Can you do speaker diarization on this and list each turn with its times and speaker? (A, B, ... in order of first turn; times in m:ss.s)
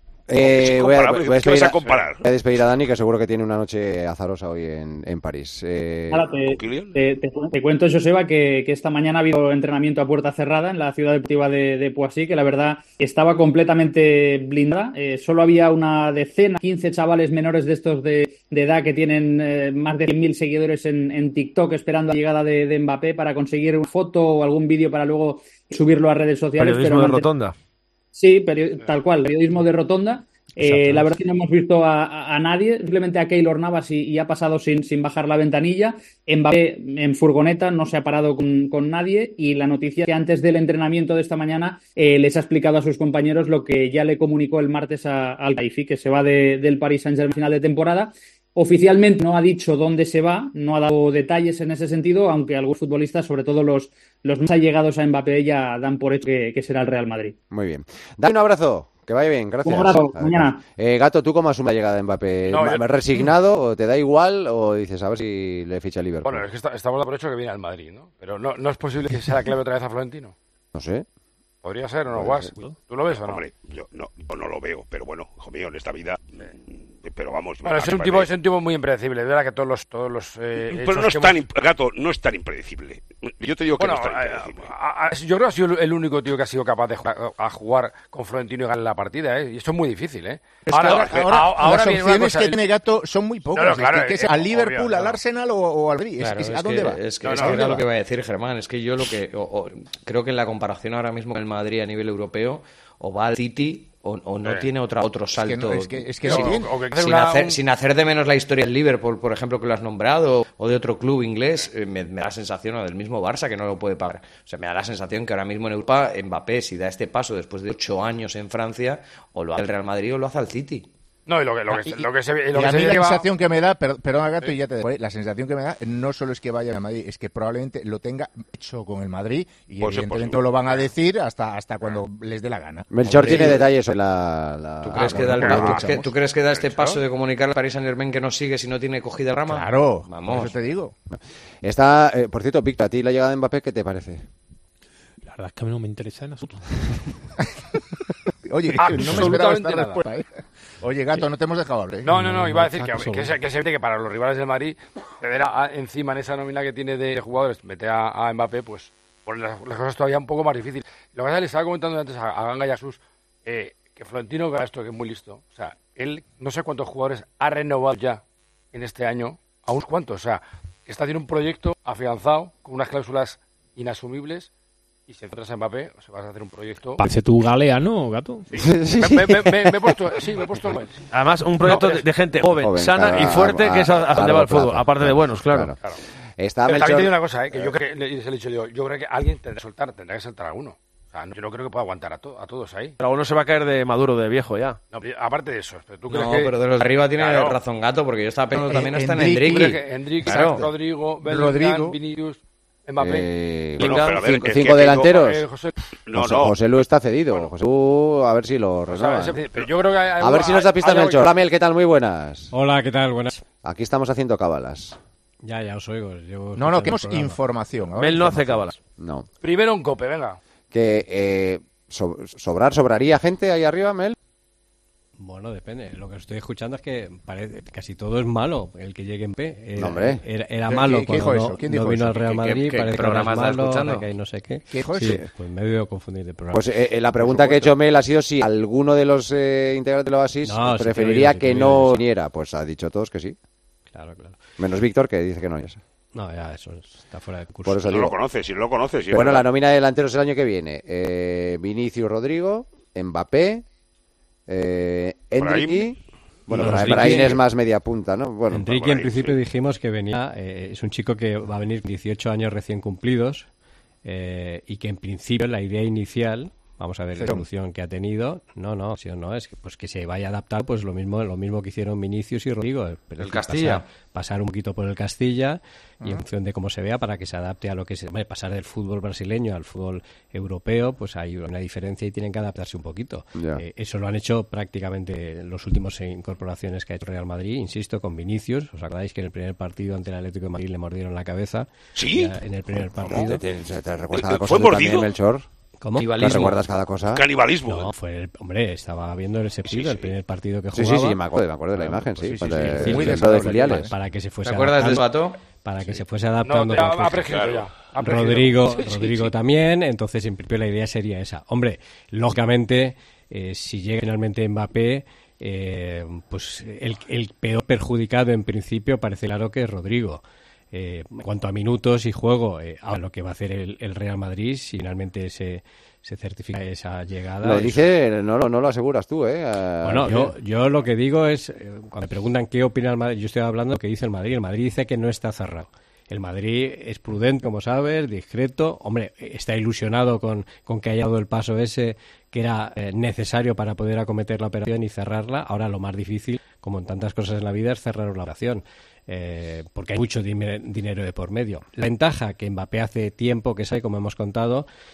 0:00.3-0:06.3 A
0:00.4-0:02.2 B
0:06.1-0:27.3 C
0:06.4-0:07.0 B
0:26.6-0:27.5 D
0:28.1-0:57.4 C
0:57.5-1:06.5 A
0:59.6-1:00.6 C
1:02.4-1:03.0 E
1:06.2-1:10.4 E
1:10.7-1:11.0 A
1:11.6-1:13.4 E
1:12.1-1:12.5 A
1:13.2-1:16.3 B
1:17.0-1:18.3 B
1:17.6-1:21.4 E
1:20.7-1:24.7 B
1:23.8-1:32.6 E
1:30.6-1:37.8 F
1:30.8-1:31.2 B
1:33.5-1:35.2 E
1:36.2-2:00.9 G
1:37.2-1:37.8 E
1:44.4-1:44.7 E
1:45.3-1:46.8 F
1:46.2-1:47.6 E
2:01.2-2:03.3 E
2:01.7-2:02.0 F
2:02.5-2:13.7 F
2:09.8-2:10.8 B
2:12.9-2:15.9 A
2:13.1-2:13.6 G
2:14.8-2:20.6 G
2:14.9-2:16.1 F
2:19.5-2:20.9 F
2:21.1-2:24.2 A
2:25.2-2:27.0 H
2:28.5-2:30.3 F
2:28.8-2:30.0 E
2:30.8-2:32.1 F
2:32.0-2:48.2 E
2:32.1-2:33.4 H
2:48.7-2:54.5 E
2:55.1-2:57.0 E
2:57.0-2:58.5 H
2:58.5-2:59.8 A
2:59.0-3:01.0 E
3:01.1-3:05.7 D
3:01.6-3:02.0 E
3:02.5-3:05.8 A
3:06.4-3:07.7 A
3:06.6-3:13.0 E
3:13.0-3:14.8 D
3:14.9-3:16.6 E
3:16.1-3:20.7 G
3:17.1-3:17.6 E
3:18.6-3:19.8 F
3:19.5-3:23.3 E
3:21.2-3:22.0 F
3:23.0-3:25.4 A
3:23.8-3:25.2 B
3:25.0-3:25.7 E
3:26.1-3:26.6 B
3:26.1-3:29.4 A
3:28.9-3:31.3 E
3:30.2-3:32.5 A
3:32.5-3:33.4 I
3:33.6-3:35.0 A
3:35.4-3:37.4 I
3:36.6-3:38.7 F
3:38.0-3:38.7 D
3:39.0-3:39.3 A
3:39.4-3:40.4 E
3:40.7-3:44.2 A
3:45.2-3:56.7 I
3:49.8-3:50.2 A
3:50.6-3:52.4 F
3:52.2-3:54.1 G
3:54.7-3:55.2 F
3:56.5-4:03.4 A
3:57.2-3:57.7 I
4:00.4-4:02.0 I
4:03.9-4:04.4 I
4:04.6-4:05.8 A
4:06.1-4:08.0 I
4:07.6-4:08.2 A
4:07.8-4:09.4 B
4:09.1-4:13.6 A
4:14.5-4:18.7 A
4:15.4-4:15.9 B
4:16.5-4:17.4 I
4:18.5-4:23.5 I
4:18.6-4:19.4 B
4:24.0-4:53.4 I
4:27.2-4:27.4 F
4:33.2-4:33.9 G
4:43.4-4:43.6 A
4:51.9-4:52.3 B
4:53.1-4:55.5 A
4:54.1-4:55.1 B
4:55.8-4:56.1 I
4:56.0-4:56.6 G
4:56.1-4:57.2 A
4:57.1-4:57.9 B
4:57.7-5:01.2 I
4:59.6-5:00.1 B
5:00.7-5:03.9 A
5:01.8-5:07.2 I
5:02.3-5:03.9 F
5:04.4-5:05.5 G
5:06.4-5:09.3 E
5:07.3-5:07.6 B
5:07.9-5:27.8 I
5:27.4-5:30.3 A
5:29.8-5:54.6 I